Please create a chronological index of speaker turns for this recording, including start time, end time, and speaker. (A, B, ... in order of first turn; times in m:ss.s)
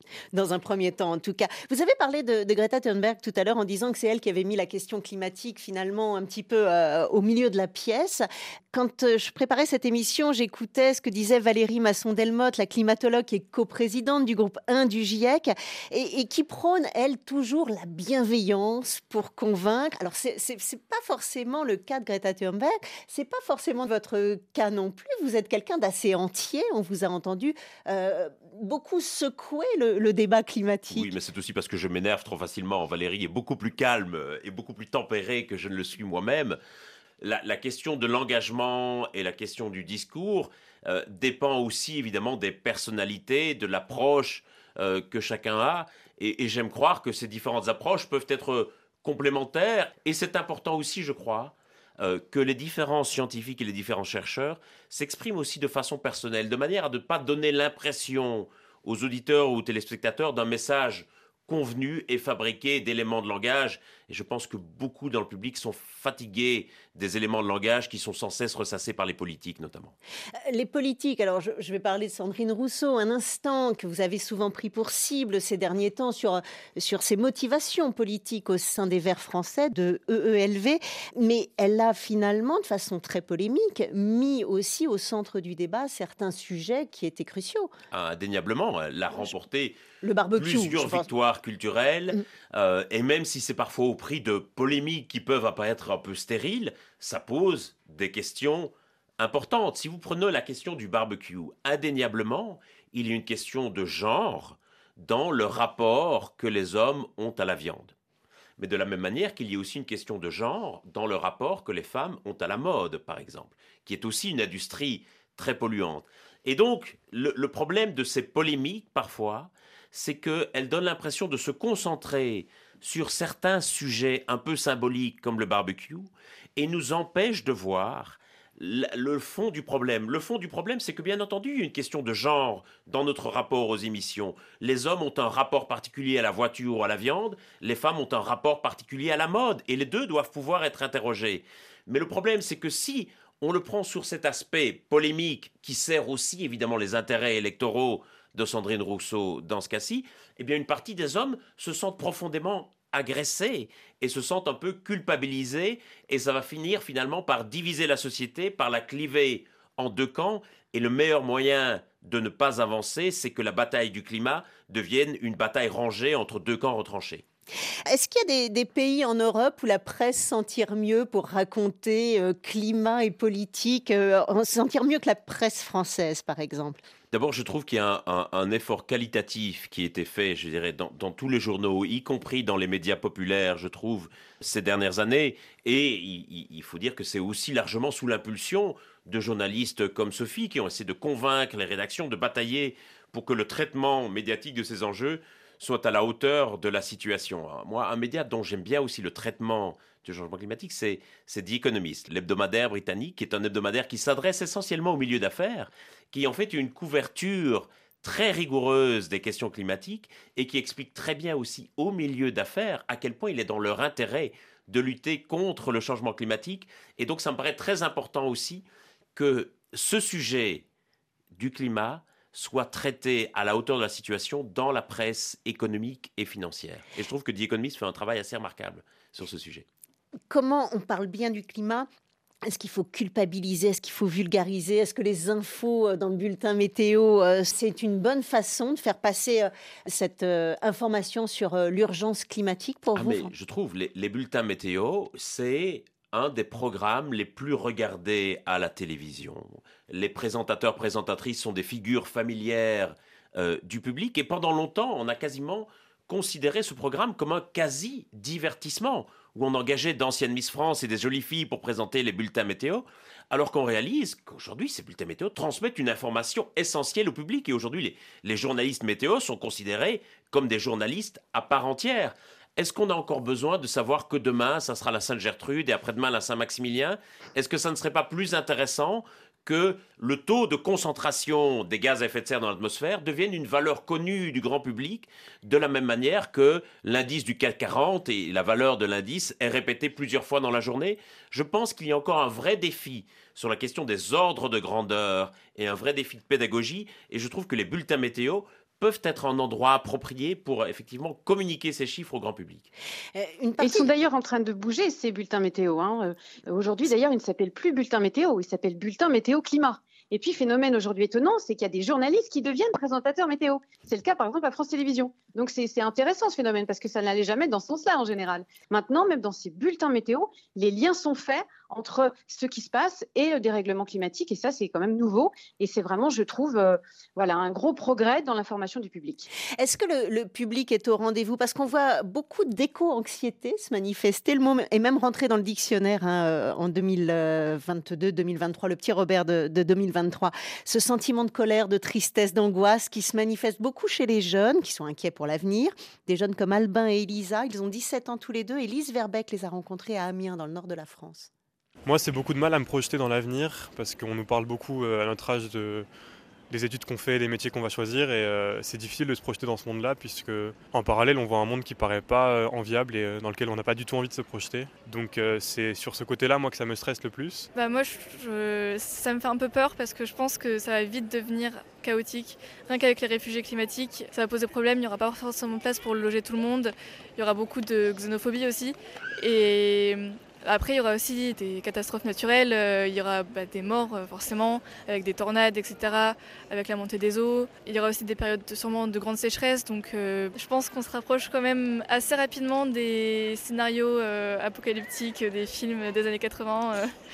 0:00.3-0:31.1 A
0:30.9-0:36.6 B
0:37.2-1:09.9 B
1:10.5-1:27.7 A
1:27.9-1:29.8 B
1:30.0-1:31.0 A
1:30.4-1:47.9 B
1:48.6-2:47.2 B
2:47.9-2:56.8 A
2:57.1-3:38.6 B
3:39.2-3:40.6 B
3:41.3-3:49.6 B
3:50.3-3:51.9 A
3:52.4-4:03.3 A
4:02.9-5:02.7 B
5:03.1-5:03.9 A
5:03.6-5:29.3 C
5:29.5-5:51.3 A
5:51.8-5:55.9 D
5:56.5-6:07.5 D
6:07.5-6:36.9 E